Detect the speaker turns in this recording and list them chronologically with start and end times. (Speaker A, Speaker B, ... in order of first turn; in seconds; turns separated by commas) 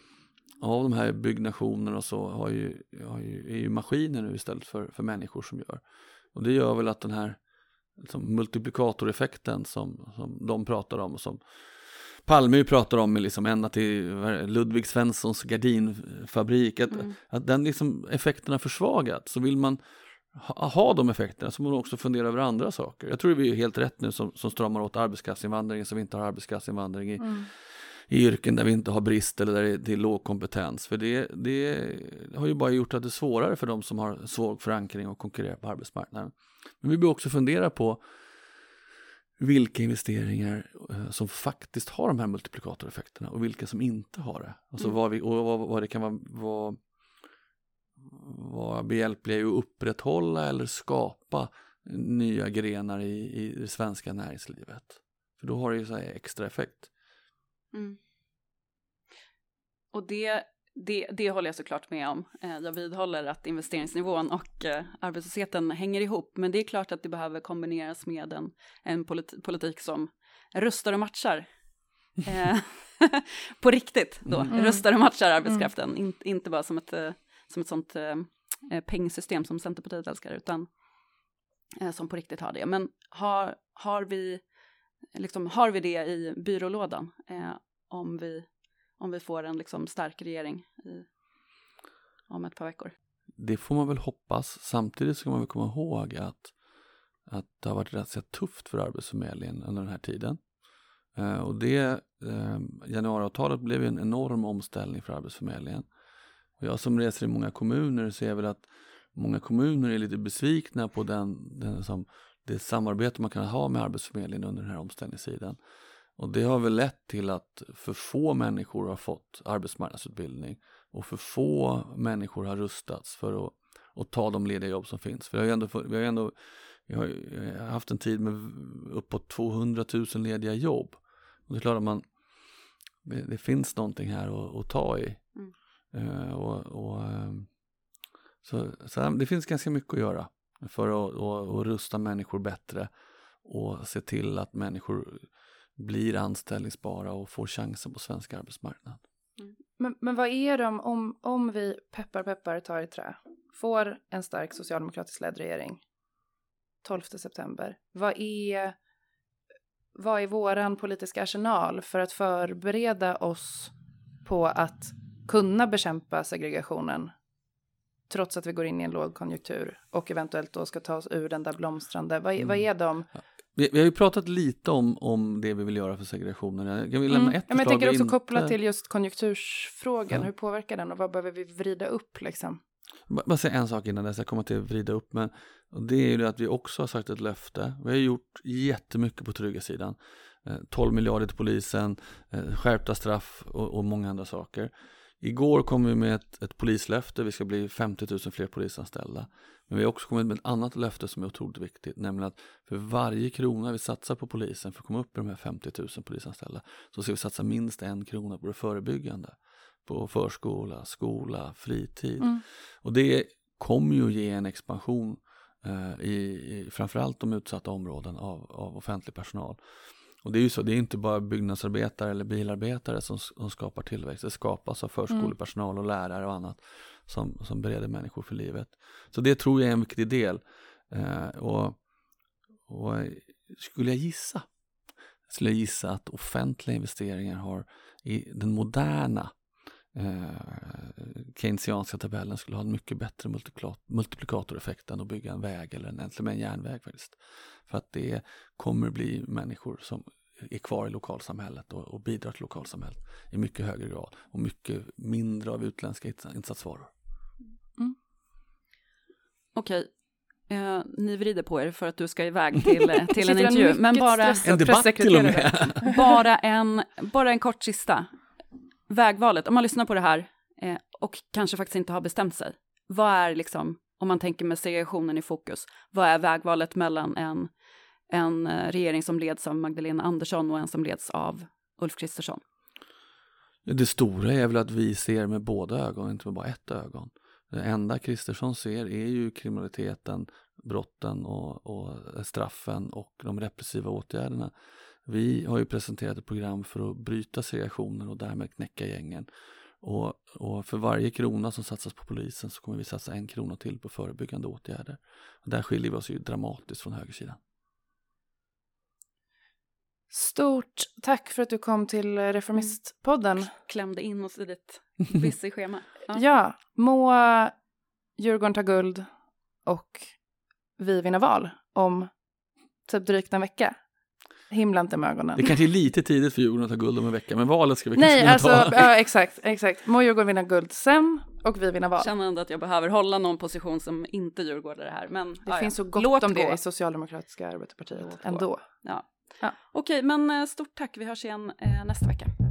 Speaker A: 0.6-5.8, Speaker A: 6.3-7.4, Speaker A: 8.0-19.8, Speaker A: 20.3-38.0, Speaker B: 27.2-27.5, Speaker A: 39.4-46.8, Speaker A: 48.0-56.9, Speaker C: 57.7-58.0, Speaker C: 59.9-71.5, Speaker C: 72.2-80.7, Speaker A: 74.3-74.5, Speaker B: 74.5-74.8, Speaker C: 81.8-84.4, Speaker C: 85.1-91.1, Speaker C: 92.3-92.9, Speaker A: 93.4-96.5, Speaker A: 97.3-100.4, Speaker A: 101.1-105.9, Speaker A: 106.6-115.6, Speaker A: 116.2-132.1, Speaker A: 133.0-135.2, Speaker A: 135.9-137.5, Speaker A: 138.4-142.9, Speaker A: 143.4-149.0, Speaker B: 149.8-155.8, Speaker B: 156.8-158.8, Speaker B: 160.0-163.7, Speaker B: 164.2-167.1, Speaker B: 168.1-173.1, Speaker A: 173.6-178.6, Speaker B: 177.4-182.6, Speaker A: 183.1-219.6, Speaker A: 220.2-231.8, Speaker A: 232.7-234.5, Speaker A: 235.3-239.3, Speaker A: 239.9-256.9, Speaker C: 259.6-259.9, Speaker C: 260.5-264.5, Speaker B: 263.1-265.9, Speaker A: 264.4-266.0, Speaker C: 265.2-268.1, Speaker C: 268.9-277.5, Speaker C: 278.1-282.4, Speaker A: 283.6-294.5, Speaker A: 295.1-299.3, Speaker A: 299.8-307.4, Speaker B: 310.1-313.5, Speaker C: 313.5-316.2, Speaker B: 316.1-317.5, Speaker B: 318.2-319.1, Speaker B: 319.6-320.1, Speaker B: 320.8-322.1, Speaker B: 322.9-323.8, Speaker B: 324.5-325.6, Speaker A: 325.4-328.9, Speaker B: 327.9-332.1, Speaker C: 332.0-336.6, Speaker B: 335.5-338.7, Speaker C: 338.0-342.3